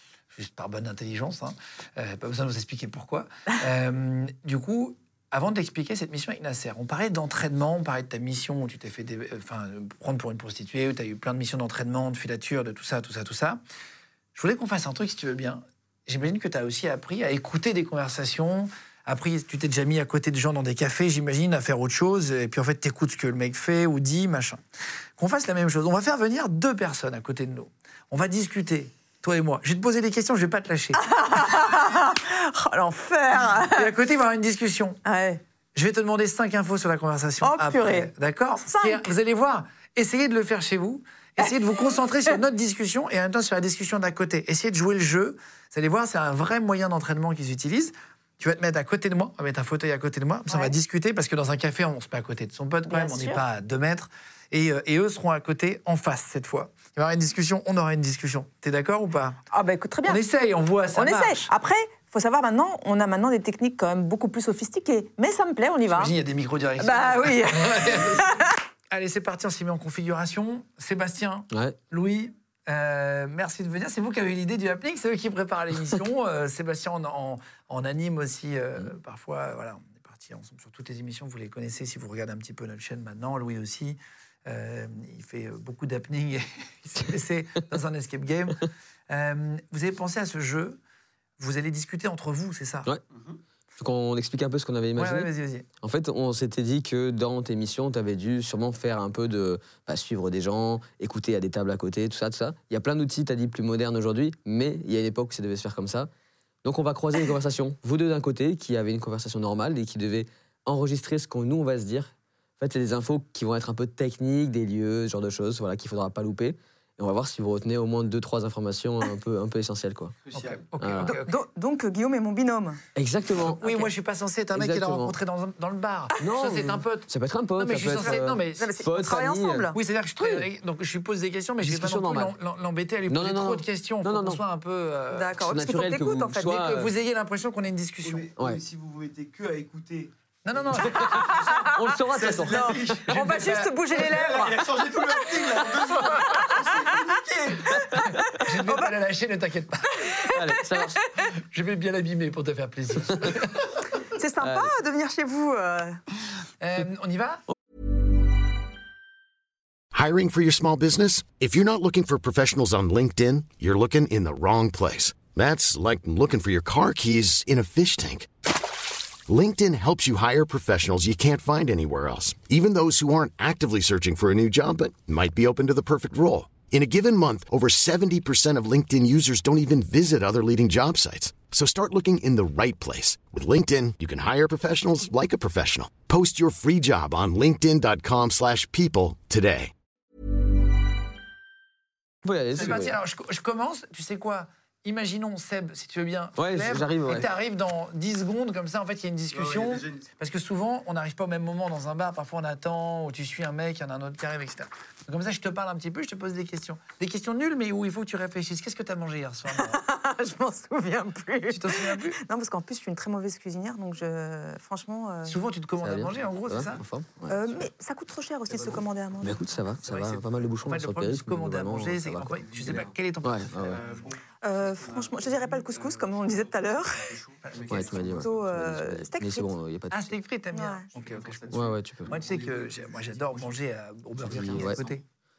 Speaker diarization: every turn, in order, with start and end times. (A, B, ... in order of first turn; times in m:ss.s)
0:00.3-0:13.6 A
0:14.3-0:24.6 A
0:25.2-0:31.4 A
0:31.0-0:33.9 B
0:33.7-0:35.0 A
0:35.0-0:35.4 B
0:35.7-0:59.4 A
0:37.4-0:39.1 B
0:41.4-0:42.4 B
0:50.5-0:50.7 B
0:52.8-0:53.4 B
0:59.5-1:00.2 B
1:00.0-1:01.5 A
1:00.9-1:06.1 B
1:05.9-1:08.4 A
1:06.8-1:08.6 B
1:08.9-1:30.8 A
1:11.5-1:11.8 C
1:31.4-1:32.9 A
1:33.1-1:33.4 D
1:33.8-1:46.1 C
1:35.0-1:35.6 A
1:46.6-2:00.2 C
2:00.2-2:00.6 D
2:00.3-2:01.4 A
2:00.8-2:01.1 C
2:01.0-2:02.8 B
2:02.9-2:03.9 C
2:03.4-2:08.7 A
2:04.5-2:05.2 C
2:06.2-2:10.4 C
2:08.0-2:09.8 B
2:09.7-2:15.3 A
2:11.6-2:12.3 C
2:13.1-2:14.4 C
2:15.1-2:16.6 B
2:15.4-2:16.9 C
2:16.5-2:18.3 A
2:18.0-2:23.3 D
2:18.4-2:18.6 C
2:20.4-2:21.4 A
2:21.0-2:26.7 B
2:21.7-2:23.0 C
2:22.9-2:23.7 A
2:23.9-2:27.9 D
2:26.0-2:26.4 A
2:27.6-2:30.0 A
2:28.0-2:28.9 B
2:30.0-2:30.9 B
2:30.2-2:31.0 C
2:31.3-2:33.8 A
2:34.1-2:36.0 B
2:34.4-2:34.7 C
2:36.6-2:37.4 A
2:39.9-2:48.7 E
2:49.3-3:09.7 E
3:12.2-3:13.0 C
3:12.5-3:29.8 A
3:12.5-3:12.9 D
3:16.4-3:17.3 C
3:19.3-3:20.1 D
3:29.5-3:35.4 B
3:31.5-3:32.2 A
3:35.2-3:36.8 A
3:35.8-3:37.5 C
3:37.3-3:39.5 B
3:38.5-3:38.8 D
3:39.2-3:43.9 C
3:39.8-3:44.0 A
3:42.4-3:43.0 D
3:43.5-3:48.3 D
3:44.4-3:47.1 B
3:47.4-3:48.0 A
3:47.6-3:50.2 C
3:48.0-3:49.5 B
3:49.9-3:55.0 A
3:50.5-3:50.9 B
3:50.9-3:55.0 D
3:51.5-3:52.1 C
3:54.3-3:54.8 C